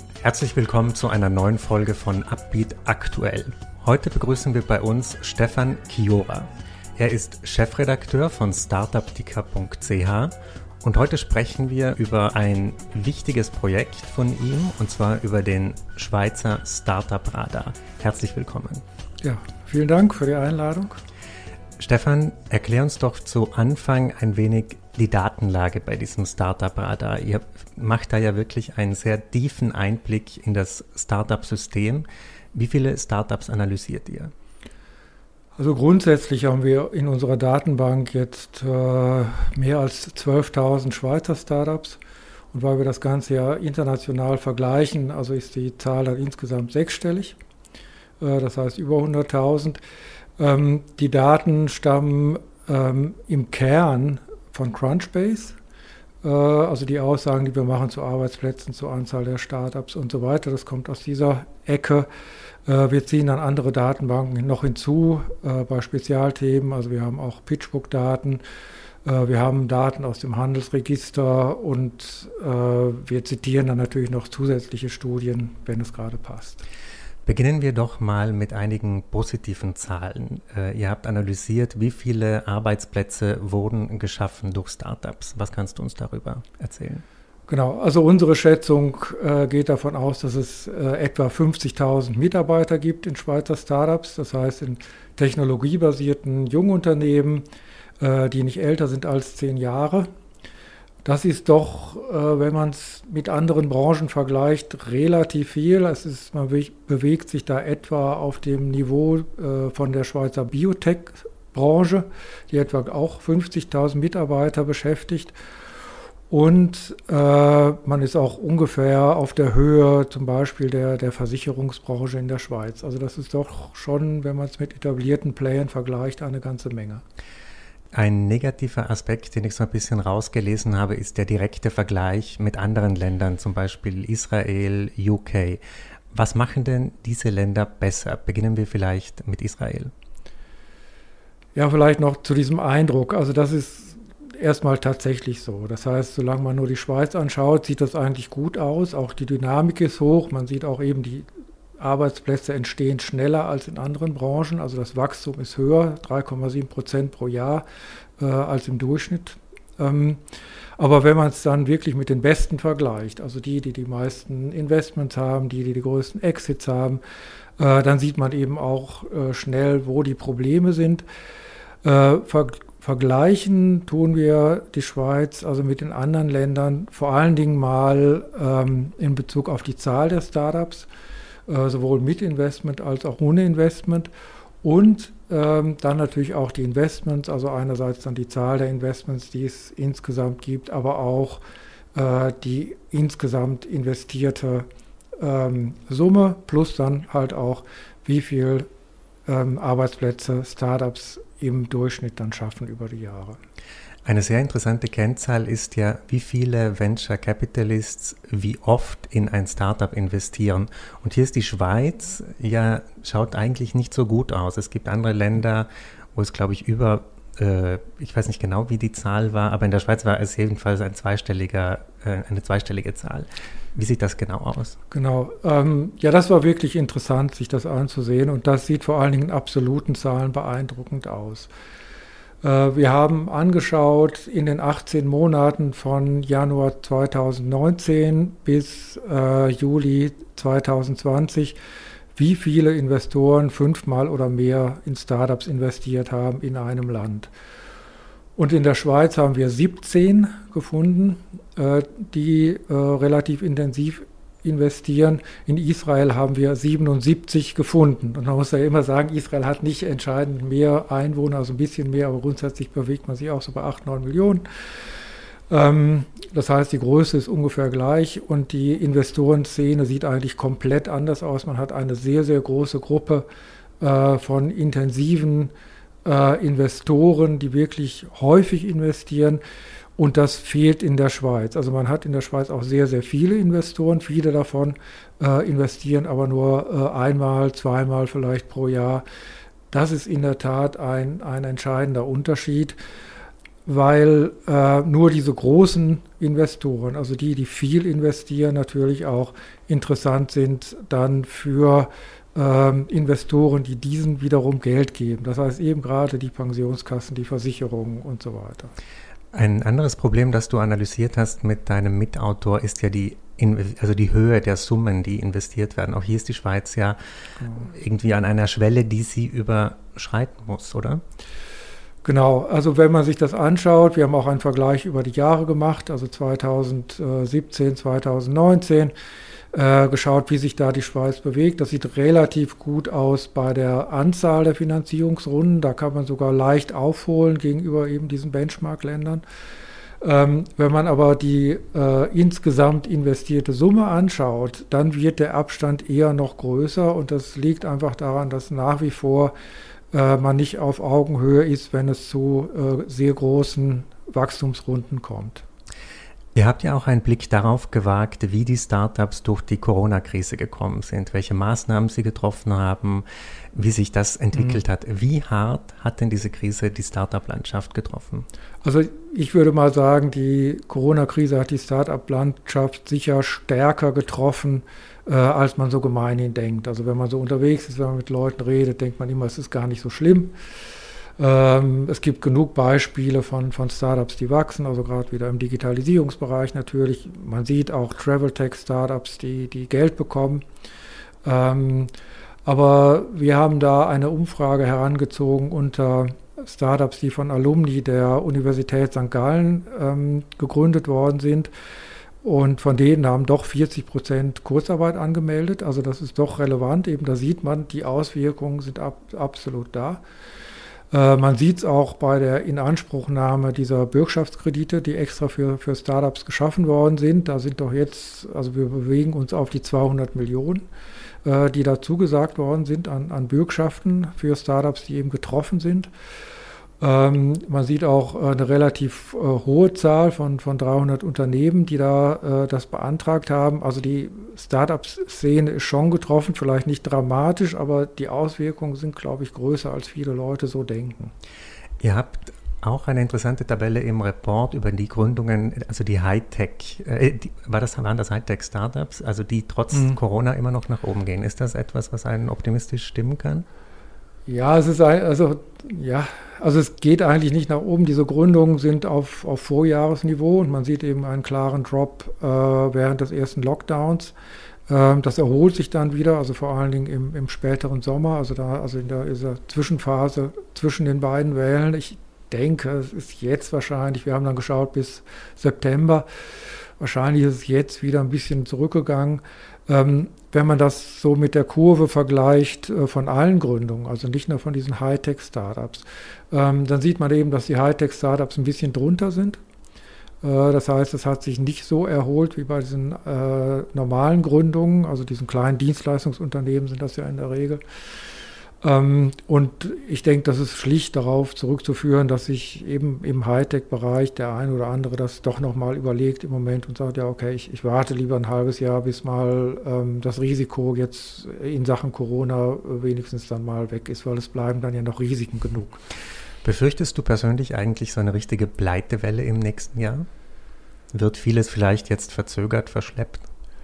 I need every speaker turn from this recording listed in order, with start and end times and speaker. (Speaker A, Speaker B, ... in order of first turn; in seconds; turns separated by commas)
Speaker A: 0.2-18.8, Speaker B: 19.2-21.0, Speaker A: 21.8-34.3, Speaker B: 35.6-42.0, Speaker B: 42.5-47.4, Speaker B: 48.2-49.8, Speaker B: 50.4-55.6, Speaker B: 56.2-62.1, Speaker B: 62.6-68.4, Speaker B: 69.0-76.6, Speaker A: 77.2-87.0, Speaker B: 87.5-97.4, Speaker B: 98.0-100.1, Speaker B: 101.0-115.3, Speaker B: 116.3-127.0, Speaker A: 127.9-139.9, Speaker B: 141.6-151.3, Speaker B: 151.8-157.6, Speaker B: 158.2-160.2, Speaker B: 160.8-167.0, Speaker B: 167.6-171.0, Speaker B: 171.8-180.9, Speaker B: 181.5-184.1, Speaker B: 184.6-191.4, Speaker B: 191.9-194.7, Speaker B: 195.2-198.7, Speaker B: 199.3-203.4, Speaker A: 204.0-224.8, Speaker B: 224.9-231.5, Speaker B: 232.4-241.6, Speaker B: 242.1-247.3, Speaker B: 248.3-264.4, Speaker B: 265.5-273.3, Speaker B: 273.8-275.5, Speaker B: 276.0-279.4, Speaker B: 280.0-289.0, Speaker B: 289.7-292.8, Speaker B: 293.6-308.7, Speaker A: 309.3-317.0, Speaker B: 317.4-317.7, Speaker A: 317.7-321.0, Speaker B: 322.0-328.9, Speaker B: 329.5-339.2, Speaker B: 340.0-349.3, Speaker B: 349.9-355.4, Speaker A: 356.3-368.3, Speaker B: 364.3-364.6, Speaker B: 368.6-380.3, Speaker B: 381.2-390.4, Speaker B: 391.2-391.9, Speaker B: 392.4-401.5, Speaker B: 402.2-410.0, Speaker B: 410.9-420.6, Speaker B: 421.2-425.9, Speaker B: 426.8-441.1, Speaker A: 441.8-453.4, Speaker B: 449.7-450.0, Speaker B: 454.3-464.1, Speaker B: 464.7-476.1, Speaker B: 476.6-489.4, Speaker B: 490.2-497.6, Speaker B: 498.6-515.8, Speaker A: 516.4-520.1, Speaker A: 520.9-523.2